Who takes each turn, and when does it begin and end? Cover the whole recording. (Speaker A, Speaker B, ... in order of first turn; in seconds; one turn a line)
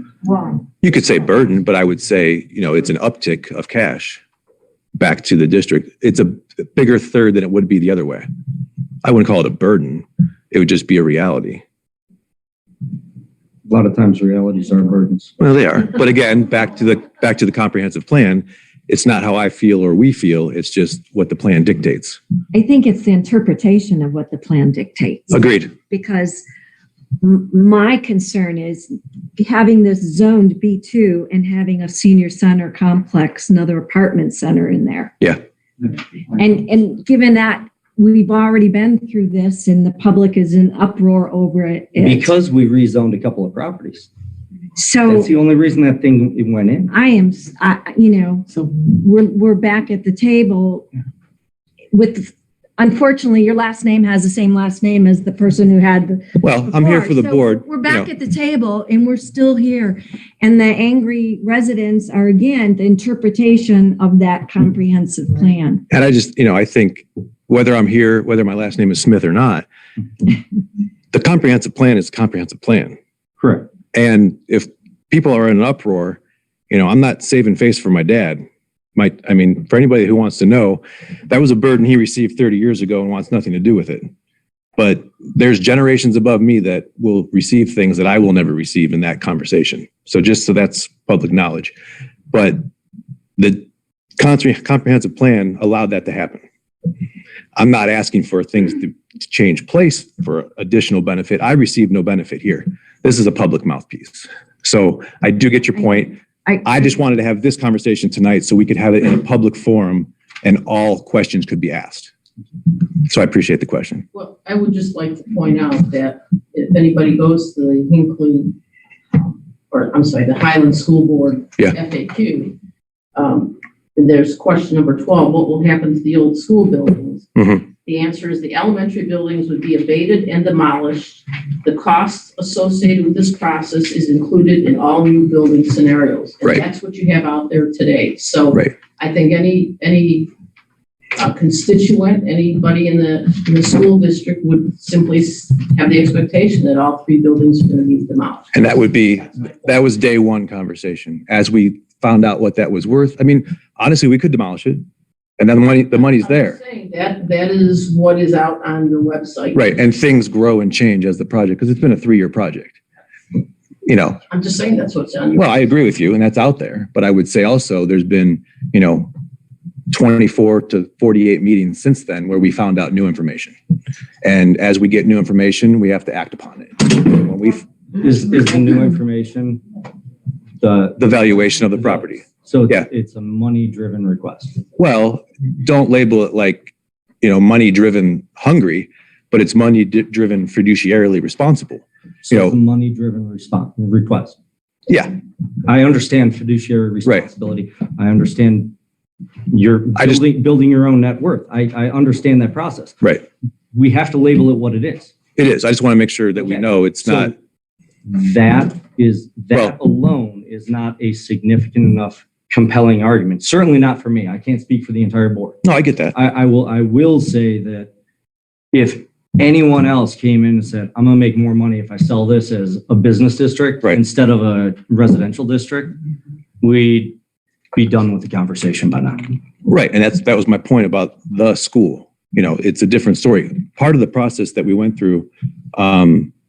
Speaker A: 0.8-4.2
Speaker A: 5.0-8.3
Speaker A: 9.0-11.6
Speaker B: 13.7-15.3
Speaker A: 15.4-22.2
Speaker C: 22.5-26.4
Speaker A: 25.3-25.7
Speaker C: 27.2-35.1
Speaker C: 36.4-42.3
Speaker B: 42.0-44.1
Speaker C: 44.8-45.3
Speaker B: 45.0-46.9
Speaker C: 46.9-50.9
Speaker C: 51.9-65.8
Speaker A: 56.4-58.1
Speaker A: 65.9-69.6
Speaker A: 71.1-73.0
Speaker B: 73.4-73.7
Speaker A: 73.9-78.4
Speaker A: 79.0-84.1
Speaker A: 84.8-91.7
Speaker A: 92.3-92.6
Speaker A: 93.4-93.7
Speaker A: 94.2-96.4
Speaker A: 97.5-112.1
Speaker A: 113.0-114.0
Speaker D: 114.1-118.5
Speaker D: 119.1-122.5
Speaker D: 123.1-127.2
Speaker A: 127.3-127.7
Speaker D: 127.8-140.3
Speaker D: 141.1-149.9
Speaker A: 148.5-154.8
Speaker A: 155.4-156.6
Speaker D: 155.9-159.6
Speaker A: 159.5-162.8
Speaker A: 163.8-164.2
Speaker D: 164.3-165.6
Speaker A: 165.3-169.1
Speaker A: 169.9-173.6
Speaker A: 174.2-177.7
Speaker B: 177.9-179.6
Speaker B: 180.6-181.1
Speaker A: 181.0-182.8
Speaker B: 181.7-184.6
Speaker A: 184.8-192.6
Speaker B: 192.2-194.4
Speaker A: 194.9-195.1
Speaker B: 195.6-198.7
Speaker B: 199.5-203.0
Speaker A: 199.9-200.2
Speaker B: 203.7-205.1
Speaker A: 205.3-207.3
Speaker B: 206.3-207.3
Speaker B: 208.0-215.6
Speaker A: 215.6-216.2
Speaker B: 216.1-217.9
Speaker B: 218.7-225.9
Speaker B: 226.6-227.2
Speaker B: 227.7-229.3
Speaker A: 229.7-236.3